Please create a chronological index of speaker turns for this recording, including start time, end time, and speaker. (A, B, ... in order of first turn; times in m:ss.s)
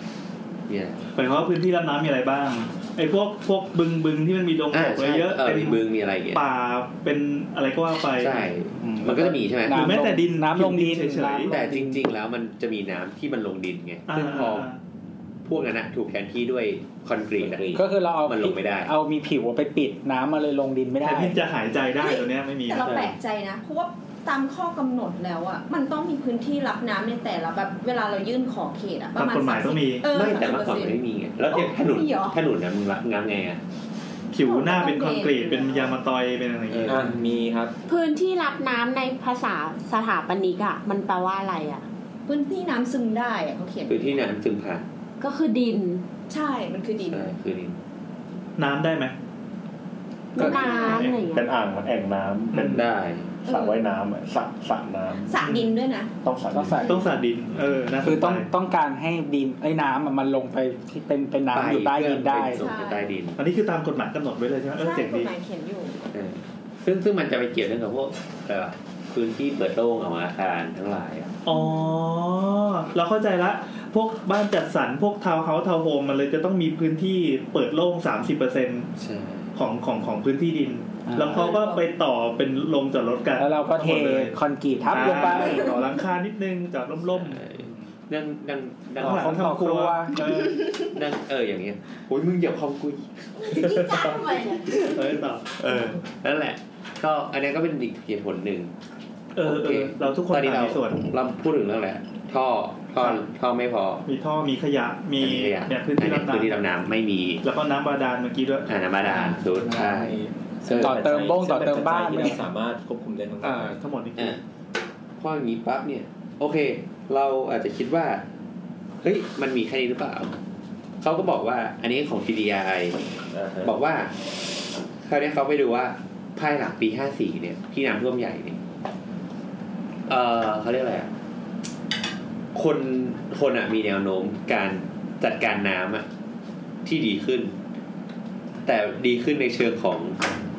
0:00.7-0:01.0 A
0:01.1-0:08.5 B
0:04.7-0:06.4 A
0:08.2-0:09.9 A
0:08.8-0:12.0 C
0:09.7-0:11.5 B
0:11.5-0:14.7 A
0:14.1-0:14.8 B
0:15.4-0:18.9 A
0:17.3-0:17.9 D
0:17.7-0:21.4 C
0:21.0-0:23.1 B
0:22.0-0:32.4 E
0:22.8-0:23.1 A
0:29.2-0:30.1 B
0:30.1-0:33.6 A
0:34.3-0:37.1 B
0:34.4-0:36.0 E
0:36.7-0:37.3 A
0:36.9-0:37.7 D
0:37.9-0:41.8 F
0:42.2-0:44.2 E
0:43.9-0:44.8 A
0:45.2-0:46.0 F
0:46.3-0:47.4 E
0:47.0-0:47.8 A
0:48.6-0:49.1 B
0:50.3-0:51.4 F
0:50.4-0:51.1 E
0:50.4-0:51.2 B
0:51.3-0:52.8 G
0:52.5-0:52.9 B
0:52.6-0:53.4 A
0:53.4-0:53.8 E
0:53.4-0:55.4 G
0:55.3-0:56.1 E
0:55.4-0:55.7 B
0:56.2-0:56.9 G
0:56.5-0:57.0 C
0:56.8-0:57.1 E
0:56.8-0:58.5 B
0:58.0-1:02.6 C
1:01.5-1:03.4 A
1:02.5-1:03.1 E
1:03.4-1:05.3 B
1:04.8-1:06.0 E
1:06.1-1:11.3 A
1:11.4-1:18.9 B
1:11.5-1:12.0 E
1:19.0-1:19.6 A
1:19.5-1:24.3 B
1:21.0-1:21.5 C
1:21.3-1:21.8 E
1:23.4-1:25.7 C
1:24.9-1:27.4 B
1:27.1-1:29.5 A
1:27.6-1:27.9 C
1:29.0-1:30.8 B
1:29.0-1:30.2 C
1:30.8-1:35.0 A
1:33.6-1:34.6 F
1:33.7-1:34.6 E
1:34.8-1:36.0 B
1:35.6-1:38.7 A
1:39.3-1:41.1 B
1:39.4-1:44.0 A
1:44.0-1:46.6 B
1:45.2-1:47.4 A
1:47.4-1:48.7 B
1:48.7-1:51.0 A
1:49.1-1:52.4 C
1:50.6-1:53.8 D
1:53.4-1:54.4 B
1:55.2-1:58.2 A
1:59.0-2:00.3 A
2:01.0-2:03.0 A
2:03.3-2:03.8 D
2:03.6-2:04.3 A
2:04.9-2:08.6 A
2:10.1-2:11.1 A
2:12.5-2:16.0 A
2:16.8-2:17.5 A
2:18.6-2:20.2 A